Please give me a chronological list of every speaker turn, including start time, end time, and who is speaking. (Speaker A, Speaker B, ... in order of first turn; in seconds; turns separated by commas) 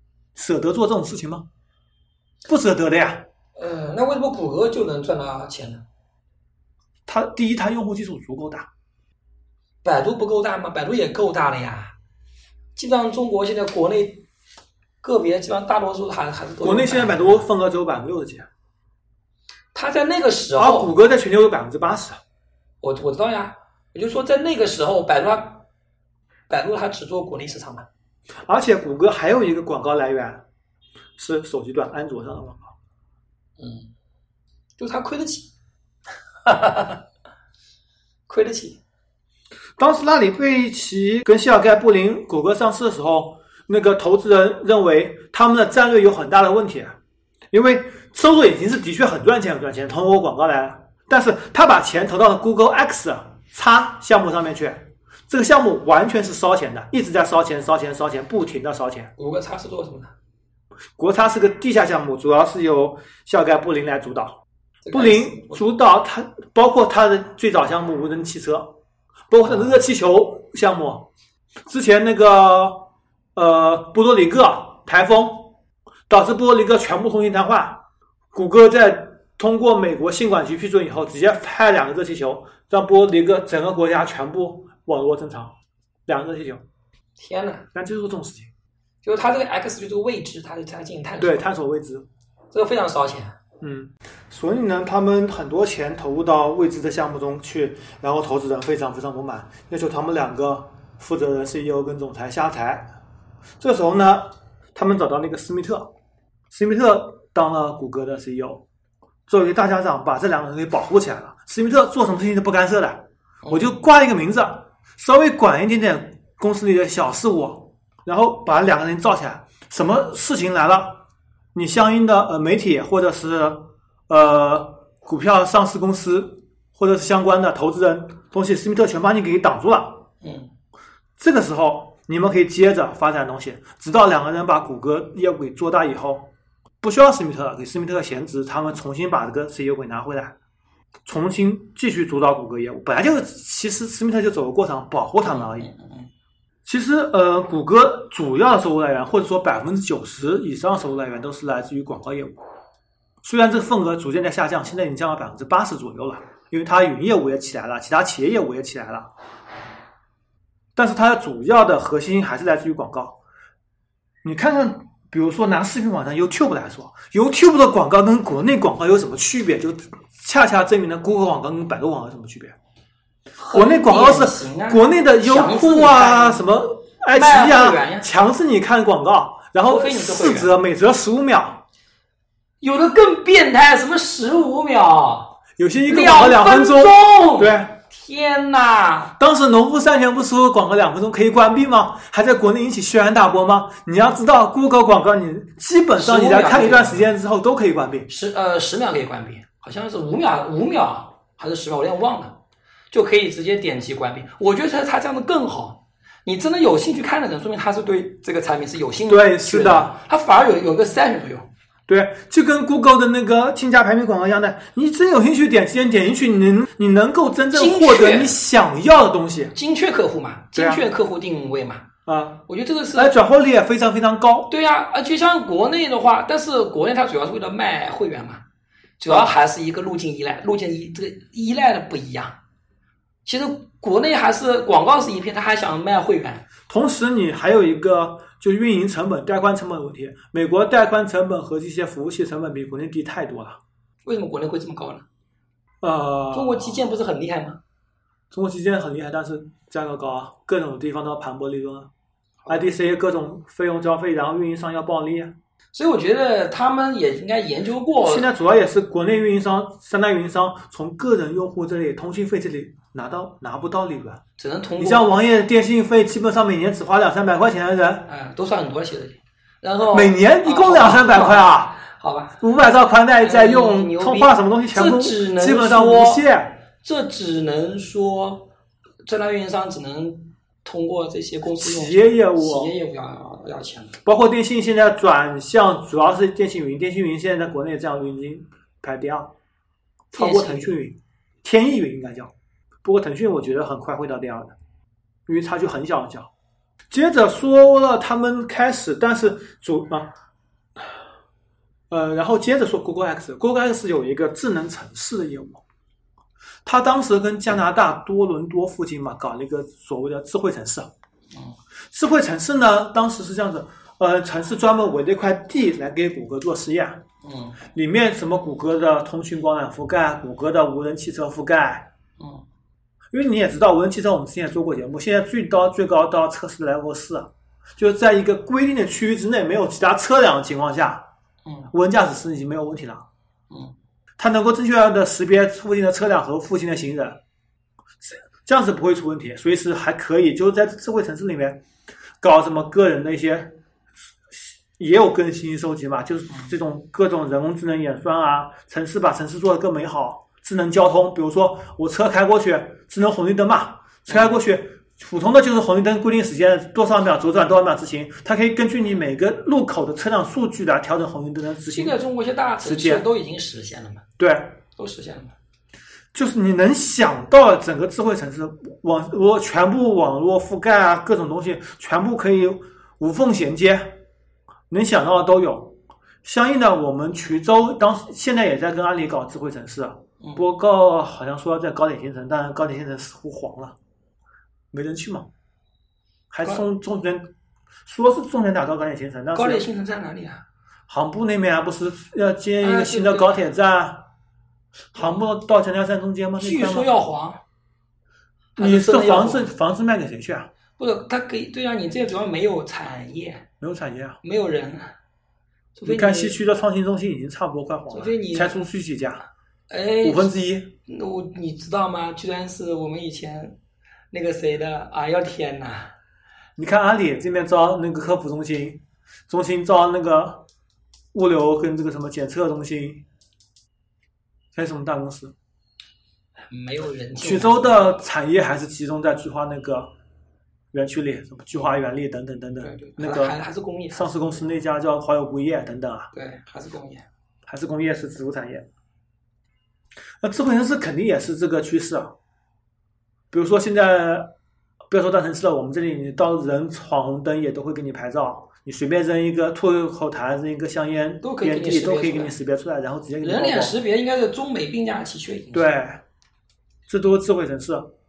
Speaker A: 0.3-1.4, Speaker A: 2.5-3.2, Speaker B: 3.5-5.8, Speaker A: 7.1-8.7, Speaker B: 9.8-11.9, Speaker B: 12.8-14.2, Speaker B: 15.0-17.4, Speaker A: 16.6-18.5, Speaker B: 19.7-20.9, Speaker A: 20.6-22.2, Speaker B: 22.8-25.6, Speaker B: 26.5-27.9, Speaker A: 28.4-30.4, Speaker A: 31.2-32.7, Speaker B: 33.6-33.9, Speaker B: 34.8-35.5, Speaker B: 36.4-37.0, Speaker B: 38.3-38.8, Speaker A: 39.8-47.0, Speaker A: 47.5-59.1, Speaker B: 59.2-60.1, Speaker A: 61.0-64.4, Speaker B: 64.8-65.6, Speaker A: 64.9-68.8, Speaker A: 69.3-71.1, Speaker B: 69.5-69.7, Speaker A: 71.7-75.5, Speaker A: 76.1-85.5, Speaker A: 86.1-86.6, Speaker B: 87.2-87.7, Speaker A: 87.7-88.5, Speaker B: 89.0-91.4, Speaker A: 91.2-92.1, Speaker B: 92.5-93.3, Speaker A: 93.6-102.9, Speaker A: 103.6-105.9, Speaker A: 106.5-108.6, Speaker A: 109.3-130.1, Speaker B: 113.4-113.8, Speaker B: 130.2-130.5, Speaker A: 131.2-136.3, Speaker A: 136.8-140.3, Speaker A: 141.1-145.7, Speaker B: 145.2-146.1, Speaker A: 146.7-152.4, Speaker A: 153.2-159.1, Speaker A: 160.8-163.2, Speaker A: 164.2-172.5, Speaker B: 173.4-176.4, Speaker A: 173.5-181.6, Speaker B: 177.1-178.1, Speaker B: 179.7-180.5, Speaker B: 182.6-185.3, Speaker A: 185.6-187.7, Speaker B: 185.9-189.1, Speaker A: 189.2-198.1, Speaker B: 196.0-197.1, Speaker B: 198.1-202.3, Speaker B: 202.9-211.5, Speaker A: 209.1-209.9, Speaker A: 211.9-219.5, Speaker B: 217.5-218.3, Speaker B: 219.5-221.8, Speaker A: 220.5-220.8, Speaker A: 222.1-224.5, Speaker B: 222.5-223.1, Speaker B: 224.5-228.4, Speaker B: 229.0-232.4, Speaker A: 229.1-229.3, Speaker B: 233.2-236.4, Speaker A: 236.7-243.6, Speaker B: 244.0-245.0, Speaker A: 245.8-246.8, Speaker B: 246.3-247.6, Speaker A: 248.3-251.9, Speaker A: 252.5-255.3, Speaker B: 255.7-258.3, Speaker A: 258.0-264.2, Speaker B: 264.4-265.1, Speaker A: 264.8-268.1, Speaker B: 268.1-272.4, Speaker A: 269.9-271.8, Speaker A: 272.4-276.6, Speaker B: 273.2-276.2, Speaker B: 276.8-278.5, Speaker B: 279.1-283.9, Speaker A: 281.6-282.7, Speaker A: 284.0-289.3, Speaker A: 290.1-292.3, Speaker B: 290.1-290.8, Speaker A: 292.8-294.6, Speaker A: 295.3-296.3, Speaker A: 296.9-300.1, Speaker A: 301.9-305.6, Speaker A: 306.6-310.9, Speaker A: 311.9-317.0, Speaker B: 317.2-317.6, Speaker A: 317.7-321.9, Speaker B: 322.2-322.4, Speaker A: 323.1-331.1, Speaker B: 331.4-331.7, Speaker A: 331.7-333.1, Speaker B: 333.5-333.7, Speaker A: 334.2-337.2, Speaker A: 338.0-341.6, Speaker A: 342.2-343.6, Speaker A: 344.3-361.9, Speaker B: 361.7-364.0, Speaker A: 362.6-363.0, Speaker A: 364.2-364.6, Speaker B: 364.8-365.3, Speaker A: 366.1-374.0, Speaker A: 374.7-383.8, Speaker A: 384.7-385.3, Speaker A: 386.3-387.3, Speaker A: 387.9-389.6, Speaker B: 389.3-390.4, Speaker A: 390.9-394.1, Speaker B: 392.6-393.4, Speaker A: 394.9-396.9, Speaker B: 396.4-397.4, Speaker B: 398.6-399.5, Speaker A: 398.6-400.5, Speaker B: 400.8-403.4, Speaker A: 403.6-404.2, Speaker B: 404.2-404.9, Speaker B: 405.8-406.4, Speaker A: 405.8-409.2, Speaker B: 407.9-408.6, Speaker B: 409.7-410.3, Speaker A: 410.0-410.7, Speaker B: 410.9-413.6, Speaker B: 414.1-415.9, Speaker A: 416.6-420.4, Speaker A: 421.1-423.0, Speaker A: 424.5-425.3, Speaker B: 426.5-427.9, Speaker A: 427.2-429.9, Speaker A: 430.7-433.4, Speaker B: 432.6-434.4, Speaker A: 433.9-436.1, Speaker B: 436.1-437.1, Speaker A: 437.5-438.7, Speaker A: 440.2-442.1, Speaker A: 443.3-444.3, Speaker A: 444.9-453.8, Speaker B: 451.2-452.3, Speaker B: 453.2-455.7, Speaker A: 455.5-456.0, Speaker A: 456.9-457.9